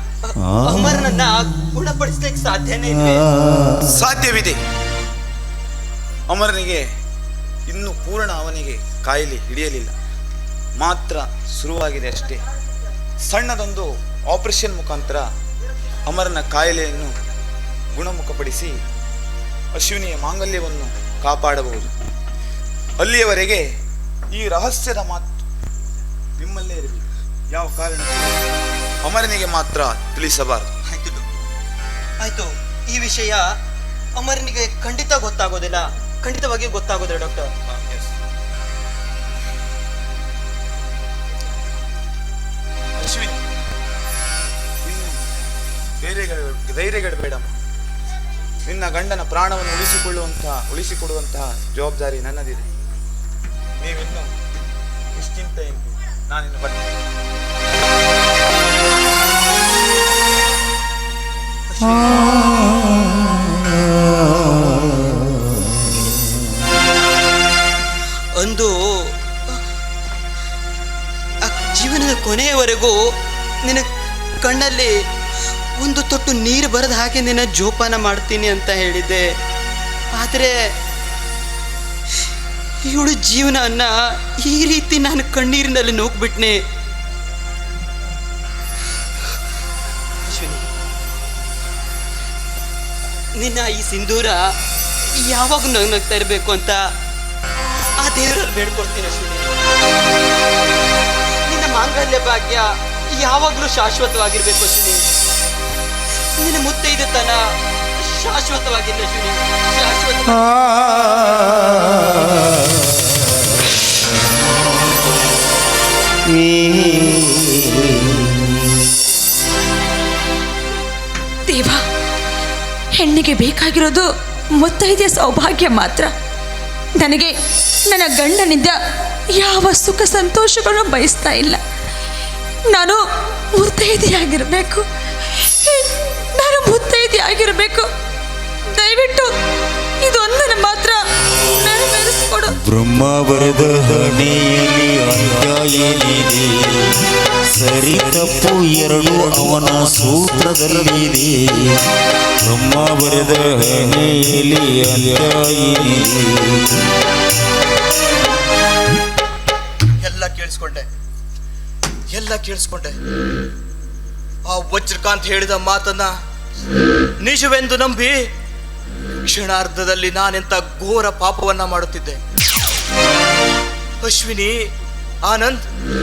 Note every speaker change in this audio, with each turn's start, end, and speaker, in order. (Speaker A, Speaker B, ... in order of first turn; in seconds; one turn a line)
Speaker A: 0.2-3.3
Speaker B: 0.5-0.8
Speaker B: 3.4-3.8
Speaker C: 3.8-4.6
Speaker C: 6.3-6.8
Speaker C: 7.7-9.9
Speaker C: 10.8-12.4
Speaker C: 13.2-15.2
Speaker C: 16.1-17.1
Speaker C: 17.9-18.8
Speaker C: 19.7-21.9
Speaker C: 23.0-23.6
Speaker C: 24.3-25.3
Speaker C: 26.4-28.4
Speaker C: 29.0-30.7
Speaker A: 30.9-31.3
Speaker A: 32.2-33.5
Speaker A: 34.1-37.5
Speaker C: 37.7-38.1
Speaker C: 43.0-43.4
Speaker C: 44.8-45.2
Speaker C: 46.0-47.5
Speaker C: 48.6-52.6
Speaker C: 53.8-54.3
Speaker C: 55.1-56.9
Speaker A: 61.7-63.2
Speaker A: 64.4-65.0
Speaker A: 65.8-66.3
Speaker A: 68.3-69.6
Speaker A: 71.4-73.0
Speaker A: 74.4-74.9
Speaker A: 75.8-79.3
Speaker A: 80.1-80.7
Speaker A: 82.8-86.6
Speaker A: 90.2-90.7
Speaker A: 93.3-94.5
Speaker A: 95.1-96.9
Speaker A: 98.0-99.7
Speaker A: 101.5-105.0
Speaker A: 106.4-111.5
Speaker B: 116.2-118.6
Speaker D: 121.4-121.8
Speaker D: 123.0-126.1
Speaker D: 127.0-127.3
Speaker D: 127.9-128.8
Speaker D: 129.3-131.6
Speaker D: 132.7-137.9
Speaker D: 138.7-139.3
Speaker D: 140.0-142.6
Speaker B: 142.6-151.9
Speaker B: 152.4-156.8
Speaker E: 160.0-160.9
Speaker E: 162.1-163.0
Speaker E: 164.5-166.1
Speaker E: 167.2-168.3
Speaker E: 169.2-172.2
Speaker E: 174.0-174.7
Speaker E: 175.2-175.7